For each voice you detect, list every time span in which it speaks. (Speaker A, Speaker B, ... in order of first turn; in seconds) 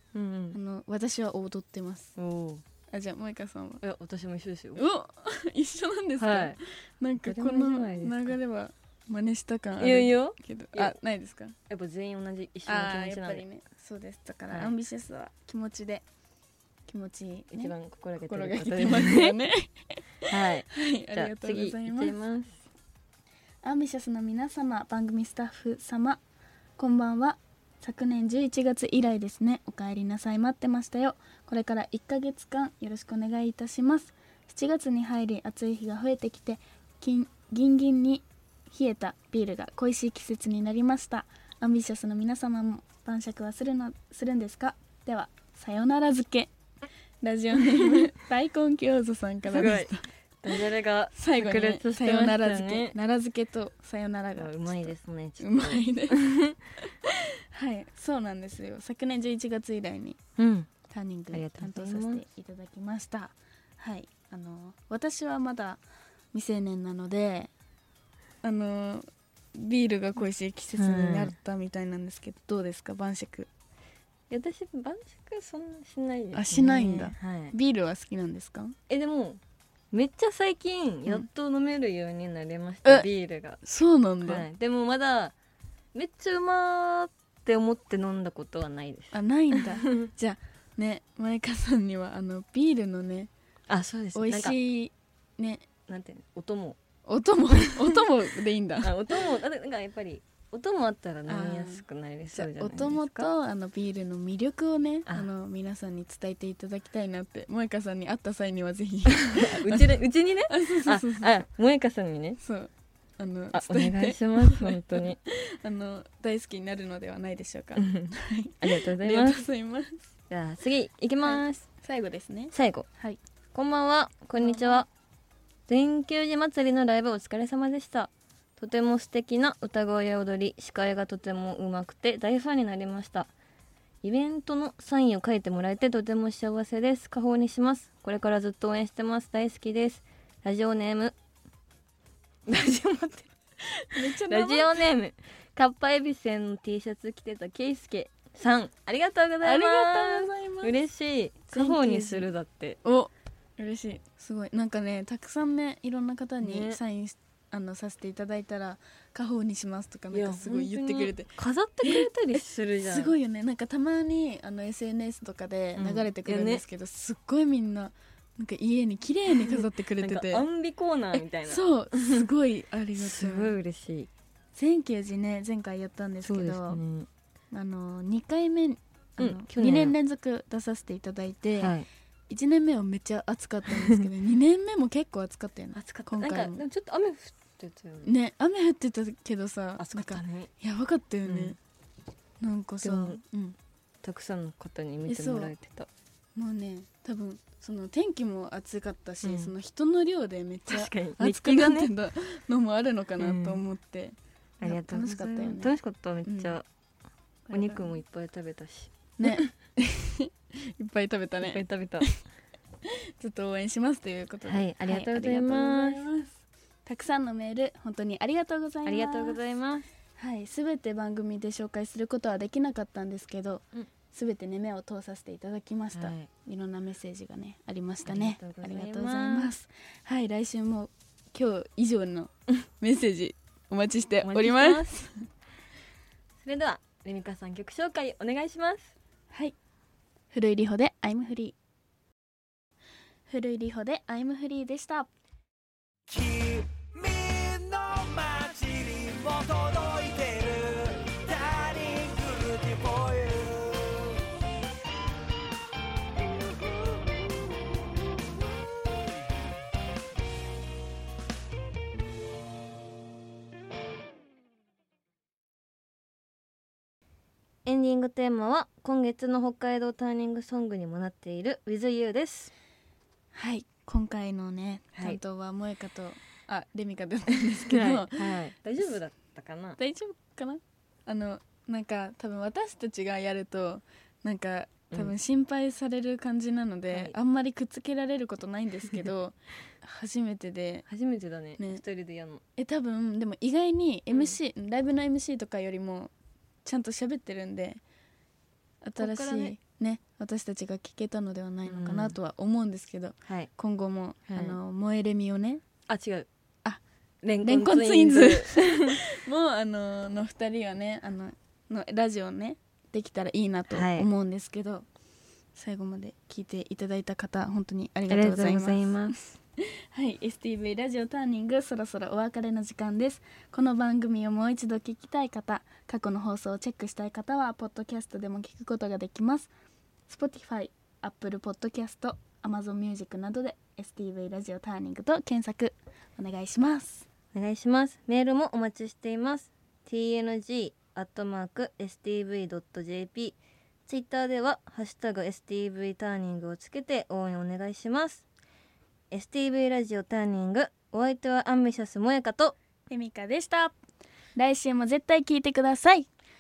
Speaker A: 0.1-0.6, 2.2-2.6, 3.8-4.8, 6.2-6.6, 7.2-8.4, 9.8-11.0, 11.7-13.4, 17.5-19.4, 20.3-22.6, 49.5-49.9, 50.4-53.0, 54.4-56.5, 60.4-60.7, 61.3-62.2, 70.8-71.3, 74.3-77.5, 78.9-79.4, 79.9-83.6, 84.2-85.3, 85.9-90.1, 93.7-94.6, 95.9-96.8, 98.8-103.3, 109.3-112.4, 113.5-115.2, 117.8-118.1, 118.6-119.4, 120.3-121.6, 122.5-122.9, 123.5-124.9, 125.7-133.3, 134.0-141.2, 142.5-143.3, 144.3-152.8, 156.4-156.8, 160.1-163.1, 165.8-166.6, 169.3-172.2, 173.0-174.1, 176.2-177.1, 179.2-179.9, 181.6-181.9, 185.7-188.1, 189.8-190.5, 191.2-191.6, 192.8-193.2, 194.0-195.9, 199.2-199.5, 200.7-201.9, 203.2-203.6, 204.6-206.7, 207.5-209.5, 211.4-212.1, 214.4-216.1, 218.8-219.9, 225.9-226.3, 228.1-229.5, 234.2-234.9, 236.4-238.9, 267.6-272.5, 277.7-279.8, 290.9-292.4, 299.0-299.6, 301.7-302.2, 304.3-304.6, 305.9-306.3, 307.2-309.0, 313.7-314.1, 318.1-319.3, 337.3-343.4, 343.9-348.2, 349.1-352.6
Speaker B: 0.5-2.2, 2.9-3.8, 4.8-11.6, 12.7-16.1, 16.9-20.0, 20.7-22.2, 23.6-26.2, 26.8-46.5, 47.2-50.0, 51.1-56.4, 57.5-60.2, 60.9-65.8, 66.3-67.5, 68.4-73.5, 76.3-78.8, 83.6-84.5, 89.1-93.3, 94.1-95.7, 97.1-99.0, 101.3-109.9, 110.5-111.4, 112.4-120.0, 121.2-123.2, 124.4-124.8, 143.9-144.9, 149.4-150.8, 151.5-152.3, 152.8-170.5, 171.1-173.6, 174.6-176.8, 177.5-181.8, 182.3-186.6, 188.0-191.6, 192.4-193.6, 195.1-195.5, 196.4-206.6, 207.5-207.9, 209.2-212.2, 213.2-219.4, 220.2-235.1, 240.3-241.6, 243.3-245.1, 273.3-278.4, 279.8-290.9, 291.6-291.8, 292.6-296.1, 296.6-297.8, 298.8-305.6, 307.4-314.9, 315.6-319.2, 319.9-329.5, 330.1-337.1, 352.9-353.8, 354.4-356.1
Speaker C: 246.1-253.7